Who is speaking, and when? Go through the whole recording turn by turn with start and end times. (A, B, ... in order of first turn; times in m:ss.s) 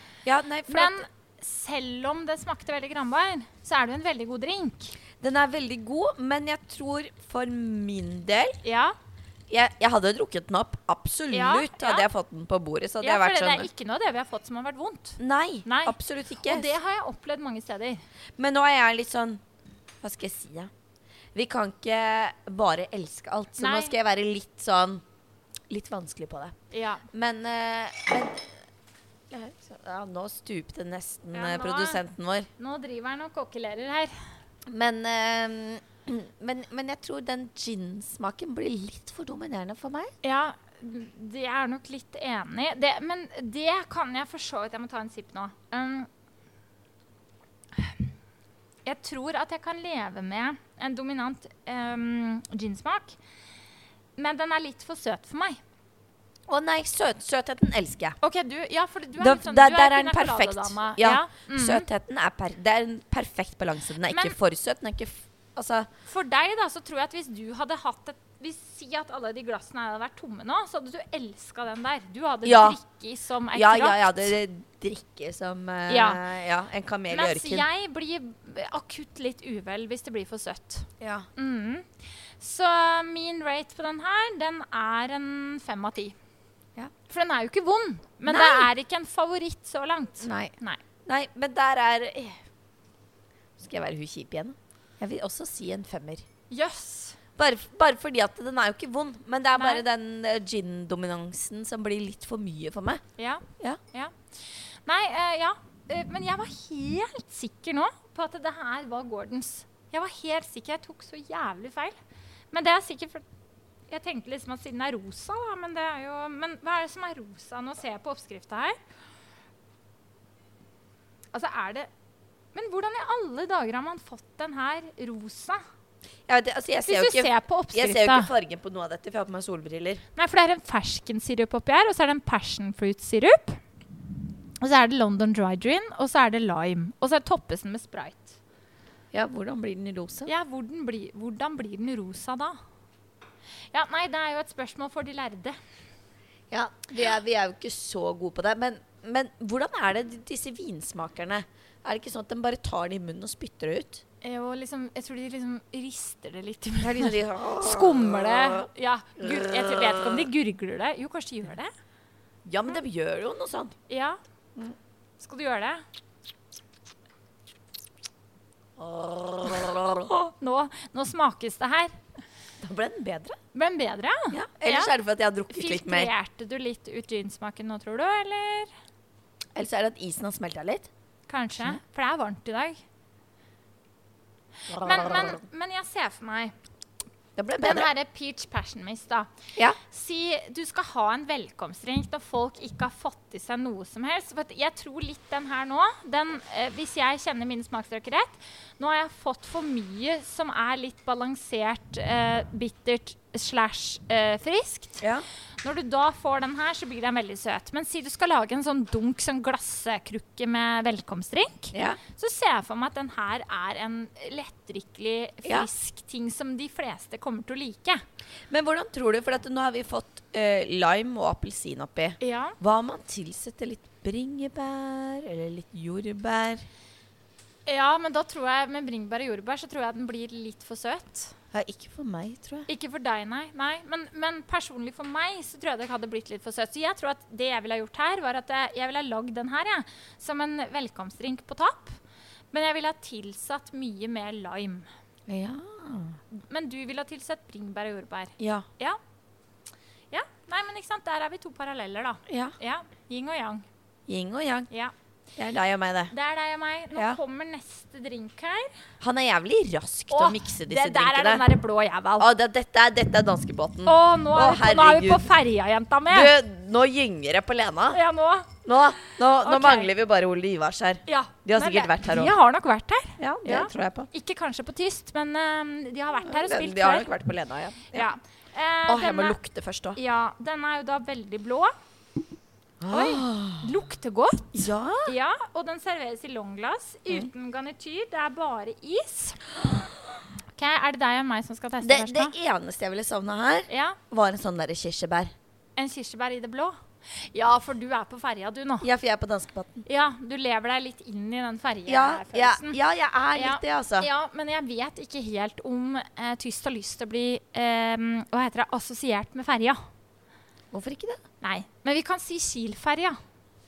0:00.2-0:01.1 A
0:00.7-0:05.0 B
0:05.2-0:08.6 A
0:08.6-0:09.0 B
0:09.5-0:13.7 A
0:11.3-0:12.1 B
0:13.0-0:18.0 B
0:15.2-0:16.7 A
0:18.4-0:19.4 A
0:20.0-0:20.7 A
0:21.3-0:25.0 A
0:23.6-0:23.9 B
0:25.7-0:26.6 A
0:26.7-0:27.0 B
0:27.1-0:28.6 A
0:29.3-0:32.5 A
0:31.3-0:32.0 B
0:32.6-0:34.1 B
0:34.7-0:40.1 A
0:40.2-0:46.1 B
0:48.8-0:53.2 B
0:54.2-0:55.6 B
0:56.5-0:58.2 A
0:58.2-1:01.9 B
0:59.2-1:05.9 A
1:04.1-1:04.4 B
1:06.0-1:14.3 B
1:12.4-1:12.8 A
1:13.5-1:17.6 A
1:15.9-1:16.2 B
1:17.1-1:21.9 B
1:21.0-1:21.3 A
1:22.4-1:26.2 B
1:27.1-1:30.8 B
1:28.2-1:28.7 A
1:30.2-1:30.5 A
1:31.0-1:32.4 A
1:33.6-1:36.2 A
1:36.5-1:37.2 B
1:37.4-1:43.0 A
1:39.6-1:39.8 B
1:43.2-1:52.0 B
1:52.5-1:53.2 B
1:53.9-1:58.8 B
2:01.3-2:01.9 B
2:02.5-2:05.6 B
2:06.3-2:10.0 A
2:06.8-2:08.3 B
2:10.2-2:13.6 B
2:14.6-2:18.4 B
2:19.1-2:20.3 A
2:20.3-2:22.6 B
2:23.7-2:25.6 B
2:26.5-2:34.0 A
2:34.2-2:41.7 B
2:36.8-2:40.3 A
2:42.4-2:43.8 A
2:43.9-2:44.2 B
2:45.2-2:45.8 B
2:48.8-2:50.1 A
2:50.0-2:52.0 B
2:52.6-2:53.4 A
2:53.5-2:54.9 B
2:54.3-2:56.1 A
2:55.5-2:58.7 B
2:59.5-3:00.9 A
3:01.3-3:02.8 B
3:04.7-3:05.4 A
3:04.7-3:06.5 B
3:07.4-3:07.9 A
3:07.6-3:25.0 B
3:25.6-3:38.0 B
3:31.7-3:32.0 A
3:38.5-3:46.6 A
3:42.2-3:42.6 B
3:47.6-3:51.3 B
3:51.5-3:52.7 A
3:52.7-4:02.0 B
4:02.5-4:04.9 B
4:05.3-4:06.2 A
4:06.3-4:09.0 B
4:08.4-4:08.7 A
4:10.1-4:13.6 B
4:12.3-4:12.5 A
4:14.1-4:14.7 A
4:15.4-4:16.1 A
4:16.1-4:18.7 B
4:16.9-4:17.2 A
4:19.0-4:21.5 A
4:20.1-4:22.3 B
4:22.2-4:25.3 A
4:23.8-4:26.3 B
4:26.1-4:28.0 A
4:27.9-4:29.9 B
4:28.6-4:32.3 A
4:31.1-4:37.1 B
4:33.2-4:34.1 A
4:36.2-4:38.1 A
4:37.9-4:39.4 B
4:38.9-4:40.0 A
4:39.9-4:41.7 B
4:42.8-4:43.7 A
4:42.9-4:44.5 B
4:44.5-4:45.1 A
4:45.0-4:49.4 B
4:50.5-4:52.3 B
4:51.8-4:55.3 A
4:53.7-4:54.0 B
4:55.8-4:58.9 B
4:58.8-4:59.8 A
4:59.8-5:02.8 B
5:01.9-5:04.1 A
5:03.3-5:09.8 B
5:10.7-5:11.2 A
5:11.4-5:13.2 B